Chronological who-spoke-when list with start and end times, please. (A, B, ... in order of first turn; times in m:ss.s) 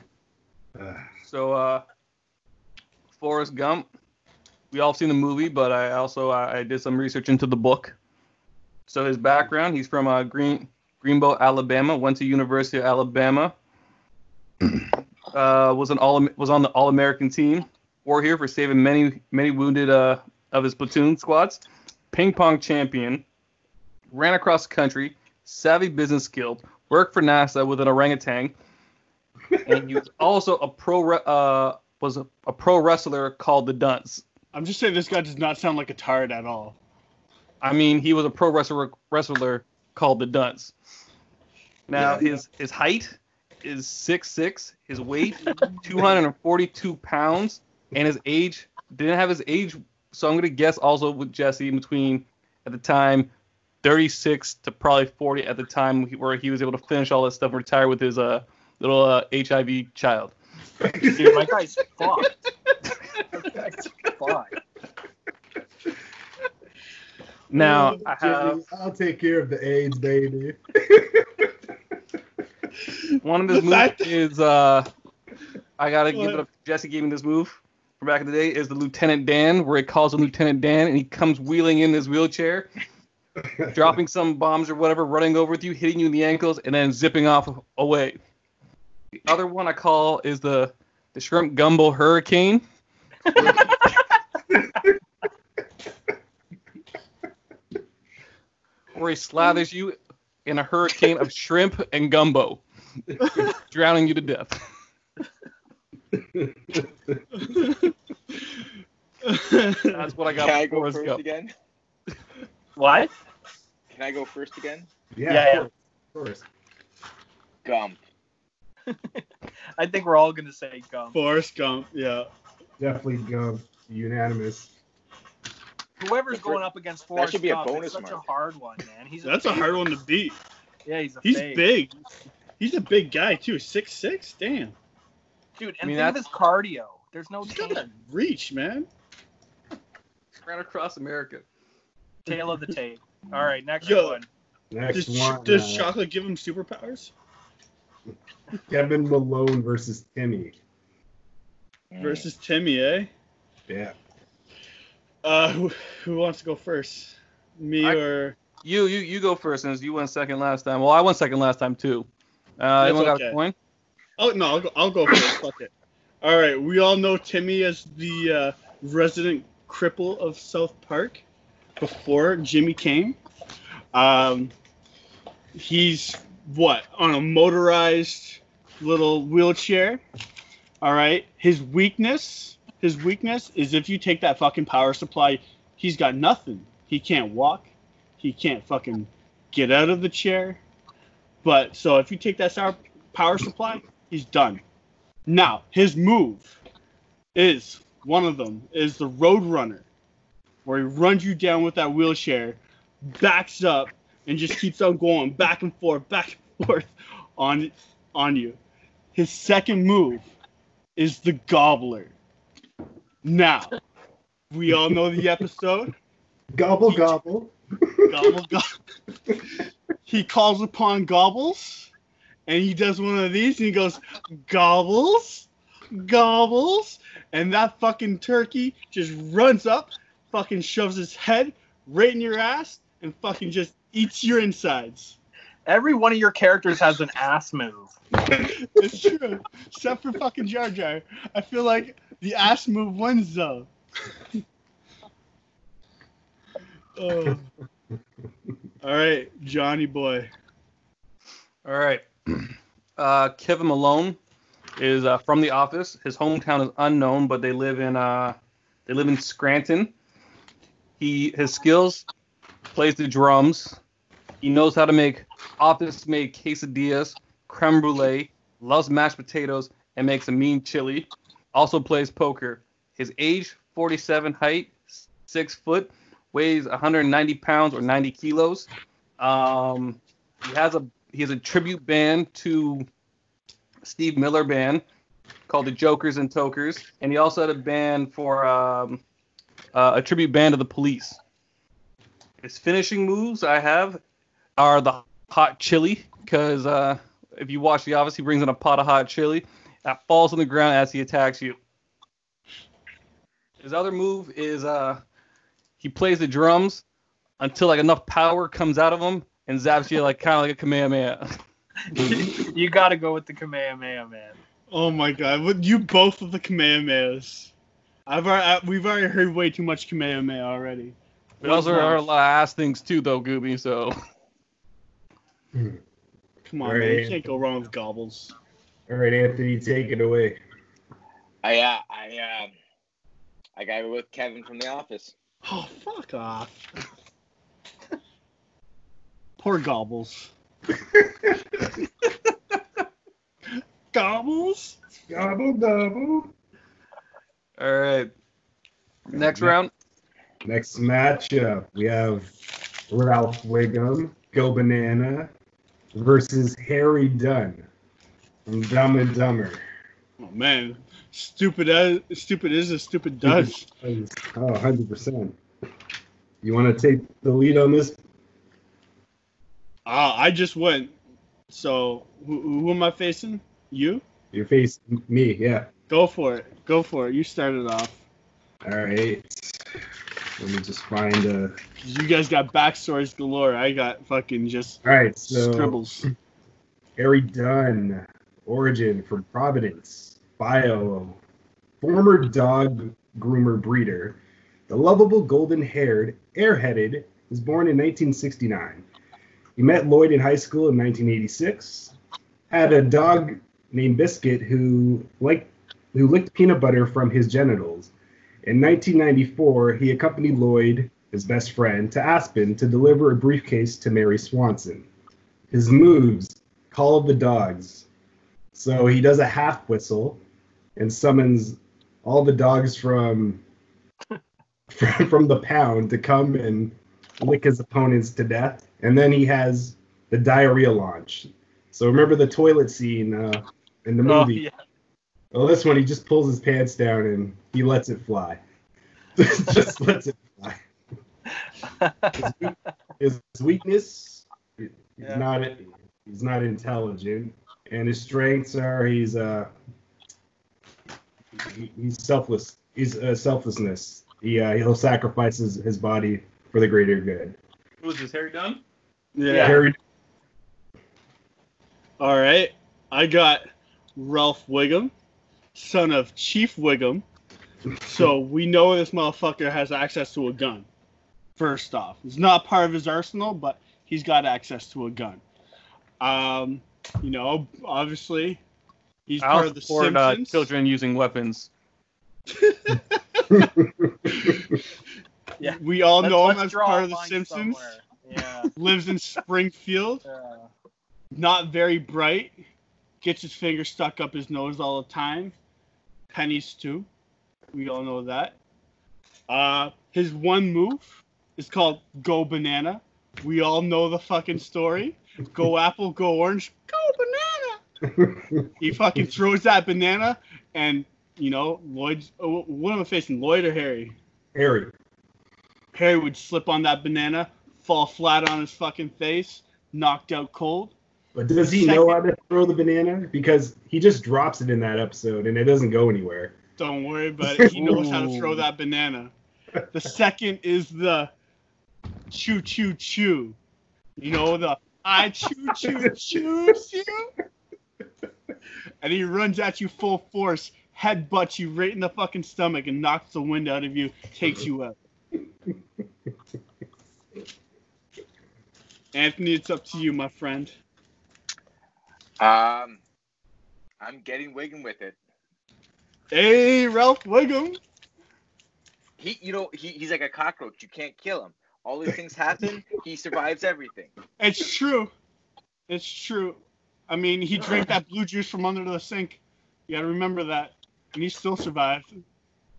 0:00.8-0:01.0 A
0:01.2-0:01.8 B
0:03.1-0:03.8 B
0:04.7-0:07.9 B
0:08.9-0:13.5 B
0:15.3-0:23.2 B
0:24.1-0:28.5 B
0:29.6-0:34.2 B
0:34.5-0:36.8 C
0:37.6-0:40.7 B
0:41.9-0:53.3 B
0:41.9-0:42.2 A
0:45.4-0:45.8 C
0:53.8-1:00.3 B
1:00.8-1:01.4 A
1:00.9-1:02.3 D
1:03.3-1:04.5 D
1:07.5-1:08.6 B
1:07.6-1:11.5 A
1:07.6-1:08.0 C
1:12.9-1:14.1 C
1:13.2-1:14.9 B
1:15.8-1:22.7 B
1:16.1-1:16.4 C
1:23.4-1:23.8 A
1:23.7-1:28.2 B
1:29.2-1:32.6 B
1:33.3-1:33.9 B
1:38.9-1:42.6 B
1:43.2-1:44.6 B
1:46.1-1:47.2 A
1:47.3-1:47.9 C
1:49.2-1:50.1 C
1:49.9-1:51.2 B
1:50.3-1:51.5 E
1:52.8-1:53.1 D
1:53.9-1:54.9 E
1:55.1-1:56.4 A
1:55.3-1:55.7 D
1:57.6-1:58.0 E
1:58.9-1:59.2 D
1:59.8-2:01.2 D
2:01.1-2:02.3 C
2:02.8-2:04.7 A
2:06.0-2:09.7 D
2:06.3-2:06.6 E
2:07.1-2:08.2 E
2:09.2-2:10.4 C
2:10.8-2:11.7 D
2:11.2-2:12.0 C
2:12.6-2:14.7 C
2:15.6-2:17.9 D
2:15.8-2:16.2 B
2:17.5-2:18.9 C
2:20.4-2:21.4 B
2:22.2-2:24.3 D
2:23.8-2:24.2 C
2:24.7-2:25.9 A
2:24.9-2:27.1 C
2:28.7-2:30.5 A
2:31.9-2:32.2 E
2:32.0-2:33.1 C
2:33.7-2:33.9 A
2:35.2-2:38.4 C
2:38.6-2:42.1 B
2:42.6-2:43.5 B
2:42.8-2:43.4 C
2:44.2-2:45.7 C
2:46.2-2:51.2 C
2:51.8-2:53.2 C
2:53.9-2:54.5 C
2:55.5-3:00.0 C
3:00.8-3:10.6 C
3:11.4-3:14.6 C
3:15.3-3:16.6 C
3:17.3-3:19.8 C
3:20.6-3:28.6 C
3:29.1-3:30.3 C
3:31.0-3:32.1 C
3:33.2-3:33.7 C
3:34.5-3:35.9 C
3:36.5-3:38.3 A
3:38.1-3:38.7 C
3:40.0-3:41.9 C
3:42.5-3:55.2 C
3:55.6-3:57.9 D
3:58.4-4:03.7 C
4:07.0-4:07.5 C
4:08.8-4:10.3 C
4:11.6-4:14.2 B
4:14.8-4:19.9 B
4:21.0-4:22.0 B
4:22.7-4:23.8 B
4:24.4-4:42.8 B
4:43.8-4:44.8 B
4:45.5-4:49.0 B
4:49.7-4:51.2 B
4:52.4-4:54.0 B
4:54.6-5:01.6 B
5:03.6-5:05.0 B
5:05.8-5:06.8 B
5:07.4-5:11.3 B
5:11.9-5:14.4 D
5:14.7-5:17.5 C
5:18.1-5:22.0 C
5:21.4-5:24.0 B
5:25.5-5:25.8 A
5:26.4-5:28.3 C
5:26.6-5:27.4 A
5:28.9-5:30.4 A
5:31.4-5:32.5 E
5:33.6-5:35.1 E
5:35.4-5:36.6 C
5:39.4-5:40.3 C
5:40.9-5:41.4 A
5:43.9-5:44.8 C
5:45.1-5:46.3 A
5:47.6-5:48.1 B
5:49.1-5:49.7 B
5:49.1-5:49.6 A
5:50.4-5:52.3 A
5:52.9-5:55.3 A
5:55.9-5:57.6 A
5:58.5-5:59.6 A
6:00.2-6:03.7 C
6:03.2-6:05.4 A
6:06.4-6:08.0 A
6:09.8-6:10.9 C
6:11.5-6:14.0 C
6:14.3-6:15.7 A
6:15.9-6:18.0 C
6:18.6-6:19.6 A
6:20.4-6:21.6 A
6:21.8-6:26.1 C
6:24.8-6:26.0 A
6:27.0-6:31.2 A
6:31.8-6:38.8 A
6:39.6-6:41.9 A
6:42.5-6:47.9 A
6:48.4-6:54.9 A
6:55.5-6:57.9 A
6:58.5-7:00.2 A
7:00.8-7:03.4 A
7:04.7-7:14.4 A
7:14.0-7:14.6 D
7:15.3-7:18.4 A
7:19.2-7:20.6 A
7:21.8-7:22.2 D
7:22.1-7:29.5 A
7:31.4-7:37.4 A
7:37.8-7:38.6 B
7:39.1-7:39.6 C
7:39.3-7:39.6 D
7:39.3-7:39.8 A
7:42.0-7:44.9 C
7:45.5-7:47.0 C
7:47.8-7:50.7 C
7:51.4-7:55.2 C
7:56.0-7:58.4 C
7:59.1-8:00.5 C
7:59.2-8:01.5 B
8:02.3-8:03.5 C
8:03.3-8:04.3 A
8:04.1-8:04.4 C
8:05.4-8:08.5 D
8:05.4-8:07.7 C
8:08.5-8:10.0 C
8:10.0-8:10.5 D
8:11.1-8:12.4 C
8:13.0-8:15.3 C
8:16.1-8:16.9 C
8:17.5-8:18.4 C
8:19.3-8:27.6 C
8:27.9-8:28.5 A
8:28.6-8:34.0 C
8:34.3-8:34.7 A
8:35.7-8:40.7 C
8:41.1-8:46.4 A
8:41.5-8:42.0 C
8:46.6-8:49.1 C
8:47.2-8:48.1 A
8:47.5-8:48.4 B
8:49.7-8:51.1 C
8:52.1-8:53.4 C
8:54.0-8:57.1 C
8:55.6-8:56.2 A
8:58.8-9:04.8 C
9:08.9-9:10.5 C
9:12.2-9:12.8 E
9:13.8-9:15.0 E
9:16.1-9:17.6 C
9:19.0-9:23.9 E
9:24.2-9:24.9 C
9:25.7-9:32.0 C